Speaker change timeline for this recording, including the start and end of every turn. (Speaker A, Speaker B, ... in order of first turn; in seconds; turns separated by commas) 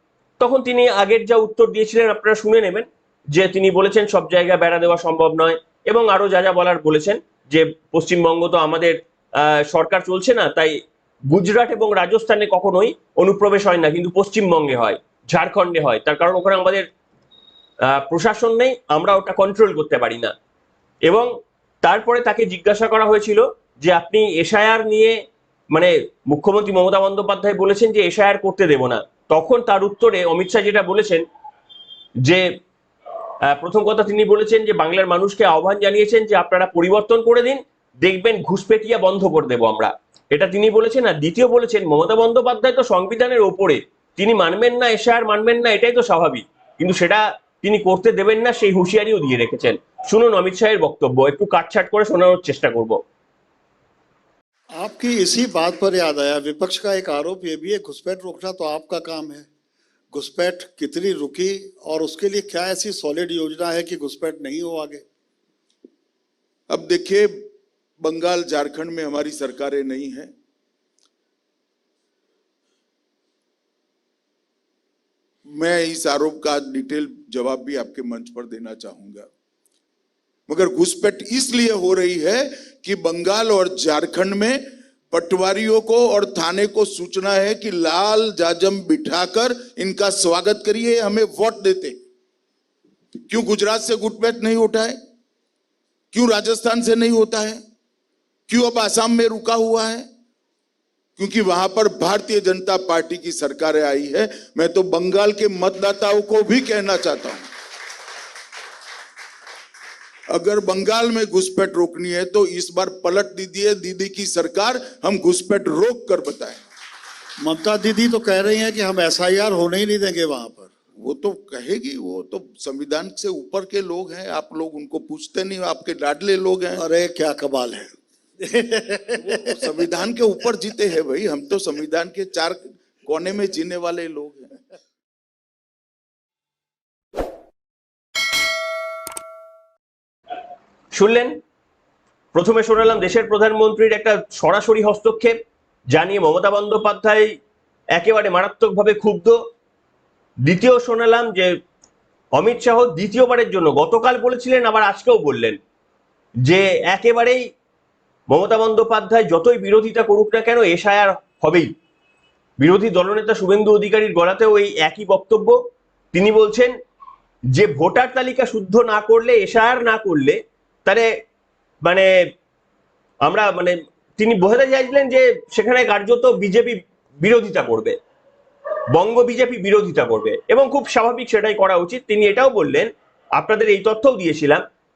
Speaker A: 0.4-10.7, Speaker A: 11.3-16.9, Speaker A: 17.9-20.3, Speaker A: 21.8-25.1, Speaker A: 25.7-31.2, Speaker A: 33.5-53.0, Speaker B: 54.8-59.5, Speaker B: 60.1-65.0, Speaker C: 66.7-67.3, Speaker C: 68.0-70.3, Speaker C: 75.5-79.3, Speaker C: 80.5-92.0, Speaker C: 93.3-95.0, Speaker C: 96.1-97.6, Speaker C: 98.5-100.0, Speaker C: 101.2-107.4, Speaker C: 110.3-116.6, Speaker B: 117.4-120.7, Speaker C: 121.0-126.8, Speaker B: 126.8-129.7, Speaker C: 129.4-134.5, Speaker A: 140.9-141.3, Speaker A: 142.3-145.3, Speaker A: 145.9-147.3, Speaker A: 147.9-149.3, Speaker A: 150.4-151.5, Speaker A: 152.4-155.6, Speaker A: 156.4-157.4, Speaker A: 158.3-161.7, Speaker A: 162.6-165.6, Speaker A: 166.1-166.7, Speaker A: 167.5-171.0, Speaker A: 173.2-177.9, Speaker A: 178.9-184.6